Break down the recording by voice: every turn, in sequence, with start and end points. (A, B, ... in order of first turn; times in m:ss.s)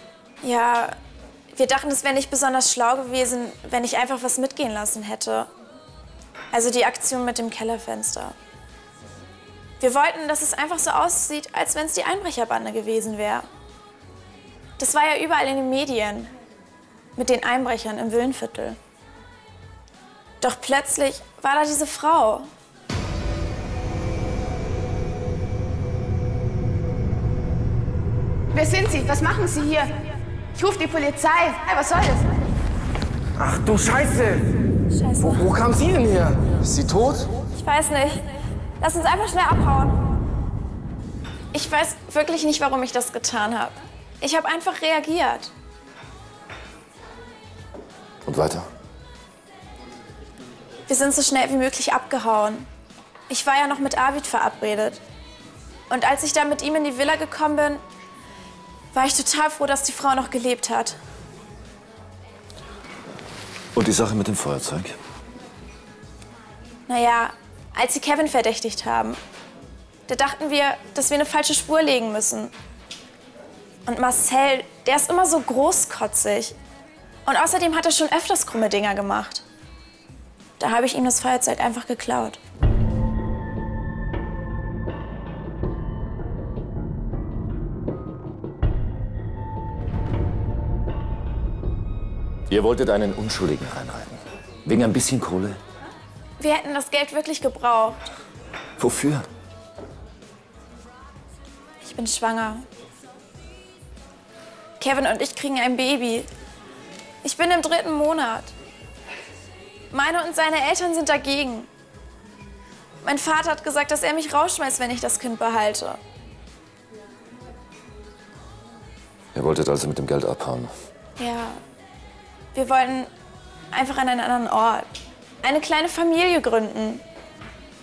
0:00.4-0:01.0 A
0:01.5-0:05.5 A
0:06.5-0:08.3 A
0:09.8-0:13.4 A
0:14.8-0:16.3 A
0:17.2-0:18.8 A
0:20.4-0:22.5 A
0:28.6-0:29.8 B
0:30.6-0:32.2 B
0:33.4-0:34.5 C
0:34.9-0:35.5 A
0:35.2-0:37.3 C
0:37.5-0:38.3 A
0:38.8-0:40.0 A
0:41.5-0:45.5 A
0:48.2-0:48.6 D
0:50.9-0:52.7 A
0:53.3-0:55.0 A
0:55.9-0:57.8 A
0:58.9-1:01.0 A
1:03.7-1:04.9 D
1:06.9-1:09.2 A
1:10.1-1:12.5 A
1:13.8-1:16.6 A
1:17.2-1:19.4 A
1:20.6-1:22.4 A
1:32.5-1:35.6 D
1:36.4-1:38.0 A
1:38.8-1:39.3 D
1:41.8-1:42.6 A
1:44.8-1:46.3 A
1:47.2-1:48.5 A
1:49.9-1:51.7 A
1:53.0-1:56.0 A
1:59.3-2:00.7 D
2:01.2-2:01.6 A
2:02.5-2:03.1 A
2:03.7-2:04.9 A
2:05.4-2:07.0 A